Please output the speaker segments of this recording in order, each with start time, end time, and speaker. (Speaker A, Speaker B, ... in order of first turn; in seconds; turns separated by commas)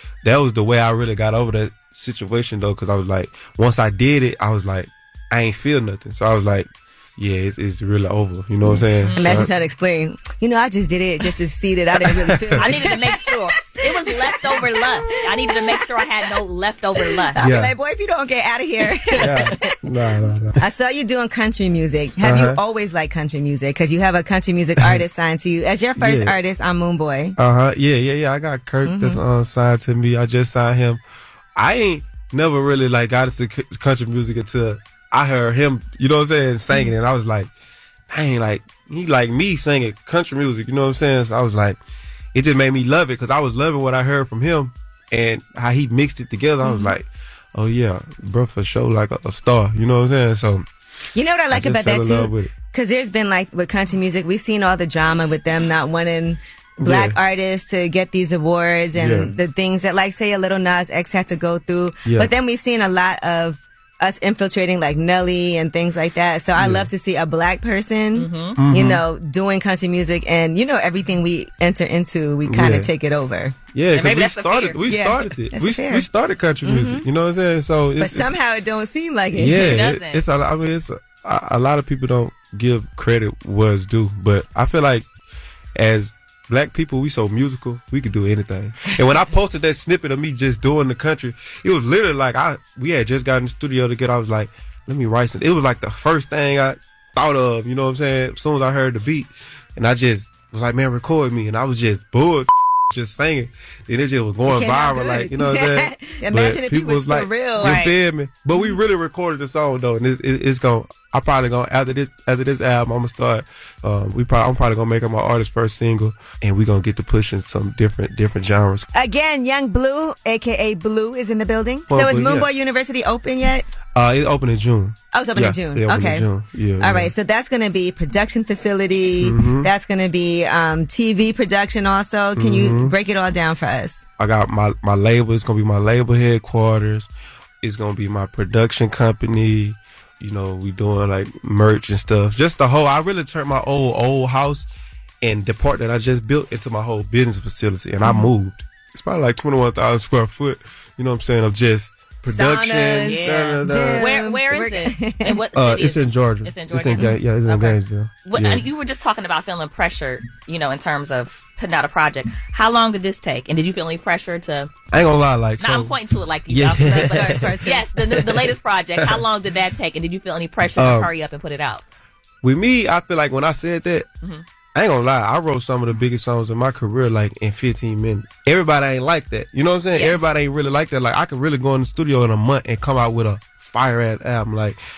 Speaker A: 0.2-9.5, Speaker B: 8.6-15.8, Speaker C: 8.9-9.5, Speaker A: 12.0-12.8, Speaker C: 12.6-17.5, Speaker B: 17.3-19.7, Speaker A: 17.4-17.7, Speaker C: 19.0-19.6, Speaker A: 19.2-20.6, Speaker B: 20.6-27.4, Speaker A: 22.2-22.6, Speaker A: 26.0-26.4, Speaker A: 27.4-31.0, Speaker B: 28.8-29.2, Speaker A: 31.6-37.5, Speaker A: 38.1-41.8, Speaker A: 42.3-50.6, Speaker B: 46.6-46.9, Speaker B: 51.1-73.5, Speaker A: 51.5-52.5, Speaker A: 56.8-57.2, Speaker A: 58.9-59.3, Speaker A: 62.0-62.3, Speaker A: 66.5-66.9, Speaker C: 68.1-68.6, Speaker A: 68.6-69.0, Speaker A: 72.4-72.9, Speaker A: 73.7-78.3, Speaker C: 73.9-74.8, Speaker B: 74.9-76.1, Speaker B: 76.6-77.0, Speaker B: 78.0-79.8, Speaker A: 79.3-85.1, Speaker C: 79.5-80.2, Speaker A: 85.8-118.8, Speaker B: 104.5-107.8, Speaker C: 107.6-108.0, Speaker B: 118.9-123.7, Speaker A: 121.9-122.5, Speaker A: 123.9-127.1, Speaker B: 125.1-126.3, Speaker B: 126.8-134.1, Speaker A: 129.2-129.7, Speaker A: 132.3-132.9, Speaker A: 134.2-137.1, Speaker A: 137.6-144.7, Speaker A: 145.2-154.1, Speaker B: 148.0-148.3, Speaker B: 152.2-155.4, Speaker C: 153.0-164.7, Speaker A: 155.5-158.7, Speaker A: 164.9-165.9, Speaker C: 165.6-171.8, Speaker A: 166.5-167.5, Speaker B: 166.9-167.9, Speaker A: 168.1-169.2, Speaker A: 170.8-171.1, Speaker A: 172.4-174.1, Speaker A: 174.7-184.8, Speaker C: 179.9-180.3